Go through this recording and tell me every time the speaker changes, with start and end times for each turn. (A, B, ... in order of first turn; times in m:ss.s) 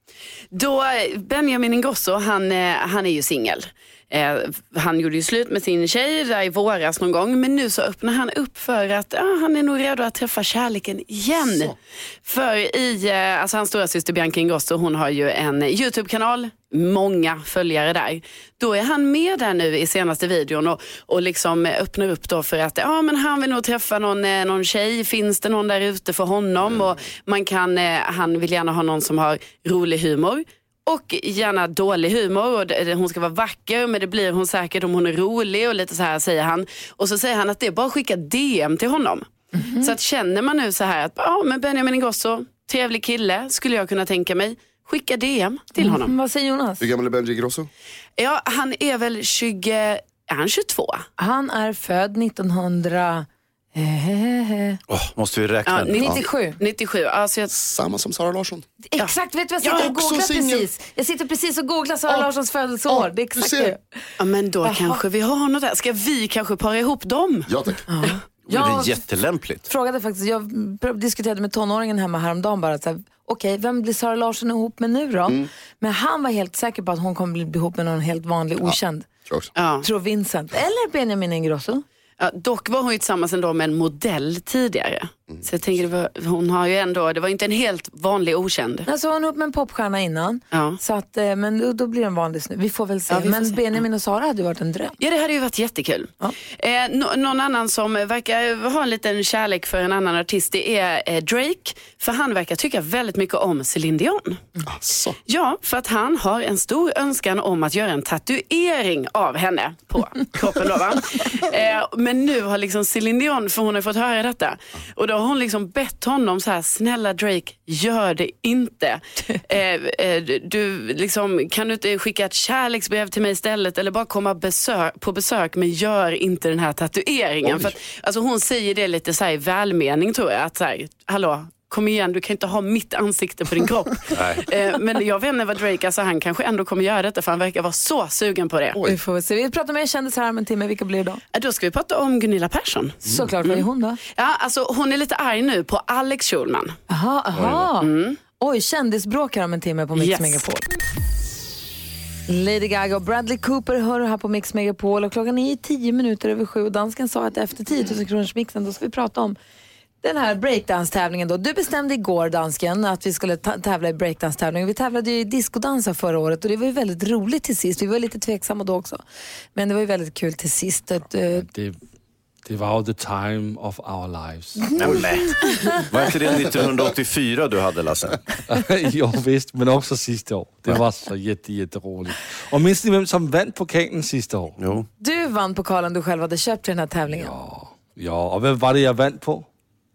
0:00.5-0:39.3 A
0:26.6-0:27.0 B
0:39.6-0:39.9 C
0:39.8-0:46.1 A
0:45.8-0:46.8 C
0:46.8-0:47.7 B
0:48.2-0:51.0 A
0:51.2-0:54.8 C
0:54.9-0:56.2 D
0:55.7-0:57.5 A
0:56.0-0:56.6 C
0:57.5-0:58.6 B
0:58.9-1:04.0 C
0:59.0-0:59.9 A
0:59.7-1:00.7 B
1:02.9-1:03.7 B
1:04.2-1:07.5 A
1:04.6-1:05.0 C
1:07.5-1:07.8 B
1:07.9-1:09.0 C
1:08.5-1:09.7 D
1:09.6-1:19.1 C
1:18.6-1:19.5 B
1:19.6-1:19.8 A
1:19.8-1:21.8 C
1:22.2-1:28.9 A
1:28.9-1:34.9 C
1:30.5-1:30.8 A
1:33.1-1:33.8 A
1:35.0-1:44.4 A
1:44.7-1:45.2 B
1:45.3-2:18.8 A
2:14.1-2:14.4 D
2:18.7-2:19.0 B
2:18.9-2:21.2 C
2:21.3-2:26.8 A
2:23.0-2:24.0 C
2:26.9-2:27.9 C
2:27.8-2:28.2 A
2:28.4-2:30.6 C
2:30.0-2:30.4 A
2:32.3-2:39.4 C
2:40.0-2:49.0 C
2:49.5-2:51.5 C
2:51.3-2:51.7 E
2:52.4-2:55.0 E
2:54.8-2:58.2 D
2:54.8-2:55.2 B
2:58.5-3:04.6 E
3:04.6-3:04.9 D
3:05.0-3:07.3 C
3:07.1-3:09.4 E